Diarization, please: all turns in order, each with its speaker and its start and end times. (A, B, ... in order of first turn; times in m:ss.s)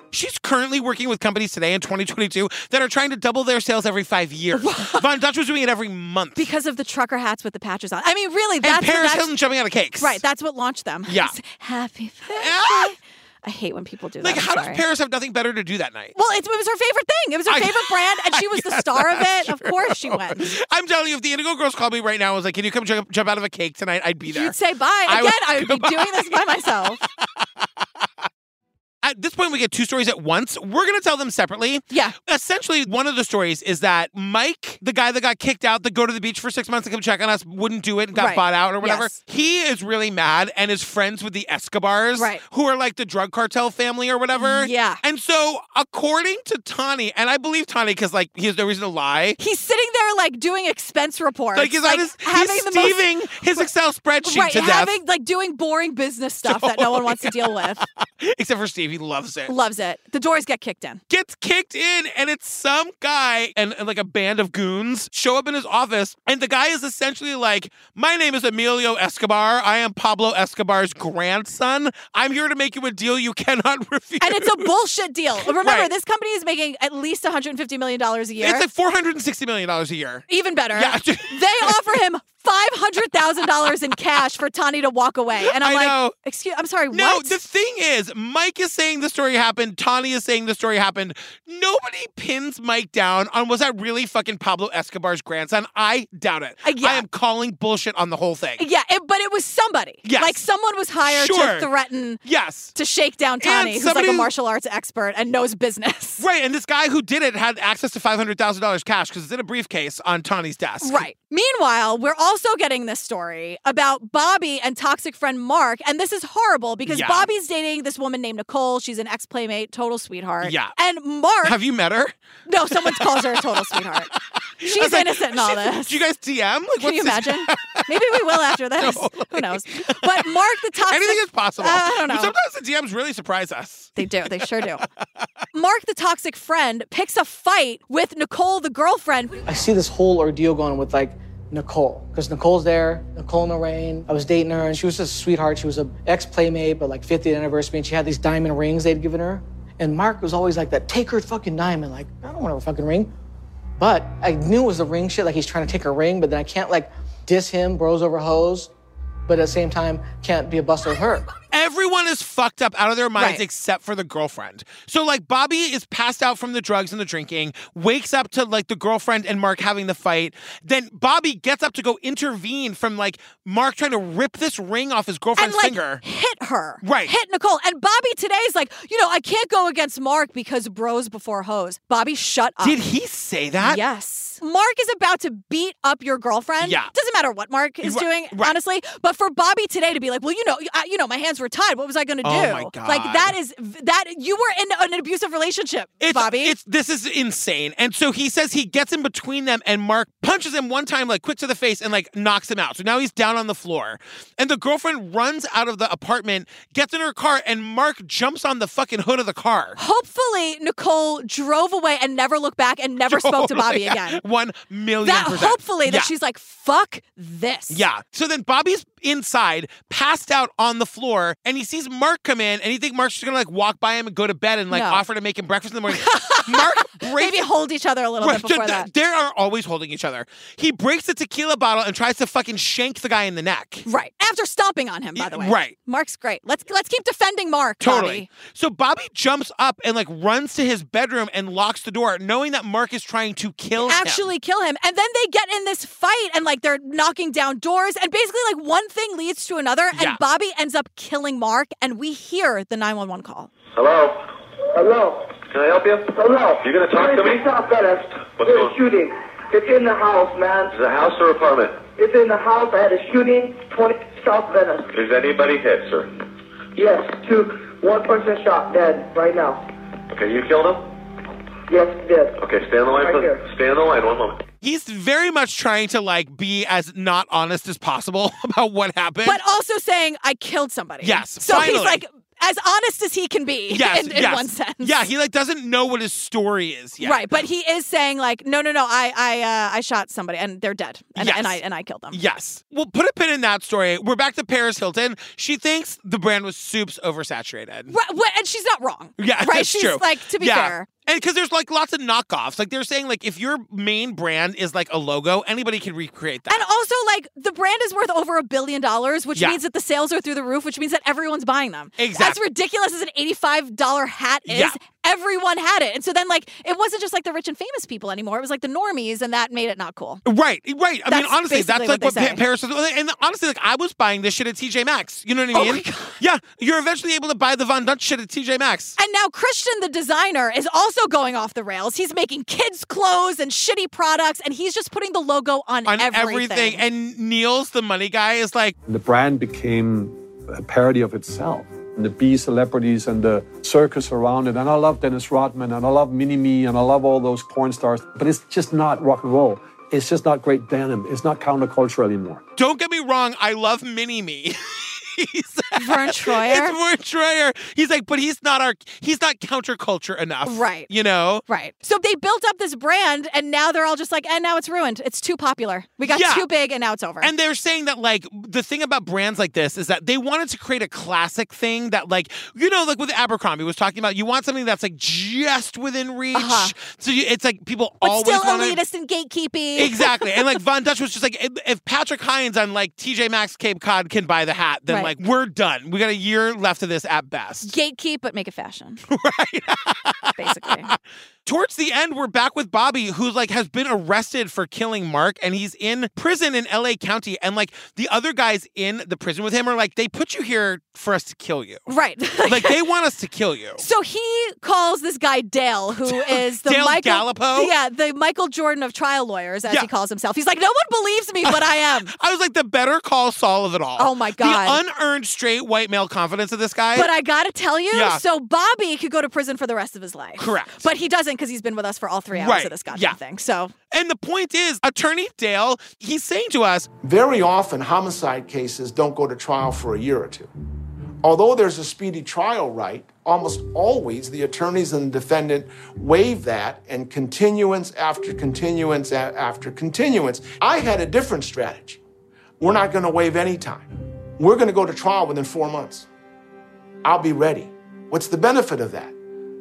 0:00.1-0:06.5 A
0:04.6-0:05.0 B
0:06.4-0:09.3 B
0:08.6-0:10.2 A
0:10.0-0:14.8 B
0:11.1-0:11.3 A
0:12.3-0:12.9 A
0:14.2-0:16.1 A
0:16.1-0:20.5 B
0:17.5-0:24.6 A
0:24.3-0:27.0 B
0:25.1-0:27.4 A
0:29.0-0:49.4 A
0:38.1-0:39.1 B
0:42.2-0:42.4 B
0:44.4-0:45.0 B
0:49.4-0:53.7 B
0:51.5-0:55.0 A
0:54.2-0:57.8 B
0:56.4-0:59.5 A
0:59.5-1:01.0 B
1:01.1-1:14.7 A
1:14.2-1:18.6 B
1:15.4-1:15.9 A
1:18.4-1:21.8 A
1:20.3-1:27.4 B
1:25.4-1:26.1 A
1:26.9-1:38.6 A
1:36.6-1:37.0 B
1:38.6-1:42.2 B
1:40.0-1:40.4 A
1:41.0-1:41.7 A
1:42.2-1:42.7 A
1:42.7-1:46.2 B
1:43.4-1:44.3 A
1:46.2-1:51.0 A
1:50.8-2:01.6 B
1:56.9-1:57.3 A
2:00.4-2:00.7 A
2:01.4-2:02.1 A
2:02.5-2:04.1 B
2:02.7-2:14.5 A
2:04.6-2:06.0 B
2:06.8-2:12.3 B
2:14.0-2:14.8 B
2:15.5-2:19.4 B
2:19.5-2:33.1 C
2:33.8-2:38.7 C
2:39.3-2:41.3 C
2:41.5-2:56.0 A
2:43.2-2:43.4 B
2:55.4-3:02.8 B
2:56.8-2:57.1 A
3:02.6-3:03.8 A
3:03.6-3:16.5 B
3:06.6-3:06.9 A
3:07.8-3:08.5 A
3:12.2-3:13.3 A
3:16.0-3:29.8 A
3:29.8-3:34.2 B
3:33.1-3:36.1 A
3:35.0-3:37.8 B
3:37.7-3:47.4 A
3:44.7-3:45.0 B
3:45.9-3:48.9 B
3:48.2-3:53.8 A
3:53.8-3:58.3 B
3:55.2-3:55.7 A
3:57.8-4:04.2 A
4:03.8-4:13.5 B
4:09.9-4:10.2 A
4:13.7-4:14.2 D
4:14.7-4:15.3 E
4:15.5-4:17.5 D
4:16.1-4:20.7 E
4:18.3-4:18.8 D
4:20.7-4:21.8 D
4:21.9-4:24.9 E
4:24.9-4:26.1 D
4:26.8-4:29.6 E
4:30.1-4:30.9 D
4:31.7-4:32.4 E
4:32.4-4:34.4 D
4:32.9-4:33.4 E
4:34.6-4:39.4 A
4:39.2-4:45.0 B
4:41.0-4:42.0 A
4:43.7-4:47.4 A
4:47.0-4:52.2 B
4:51.2-4:51.6 A
4:52.1-4:57.9 A
4:57.9-5:00.9 B
4:59.2-5:06.6 A
5:06.5-5:20.2 B
5:12.0-5:12.4 A
5:14.5-5:14.8 A
5:20.2-5:29.0 A
5:21.1-5:22.4 B
5:25.5-5:26.2 B
5:29.0-5:36.8 B
5:35.9-5:38.8 A
5:38.8-5:52.4 F
5:52.6-6:01.4 A
5:55.8-5:56.8 B
6:00.4-6:00.9 B
6:01.5-6:07.3 B
6:06.0-6:06.5 A
6:07.2-6:18.8 A
6:16.3-6:16.7 B
6:18.0-6:20.6 B
6:19.8-6:27.7 A
6:27.6-6:29.0 B
6:29.1-6:41.9 A
6:30.4-6:30.9 B
6:41.9-6:42.8 B
6:42.4-6:43.8 A
6:43.8-6:52.1 B
6:46.1-6:47.7 A
6:51.4-6:57.1 A
6:54.0-6:54.8 B
6:56.9-7:03.7 B
6:57.9-6:58.2 A
7:00.4-7:00.8 A
7:02.3-7:03.2 A
7:03.9-7:06.9 A
7:07.0-7:10.5 G
7:11.2-7:22.0 G
7:22.6-7:26.1 G
7:27.0-7:29.1 G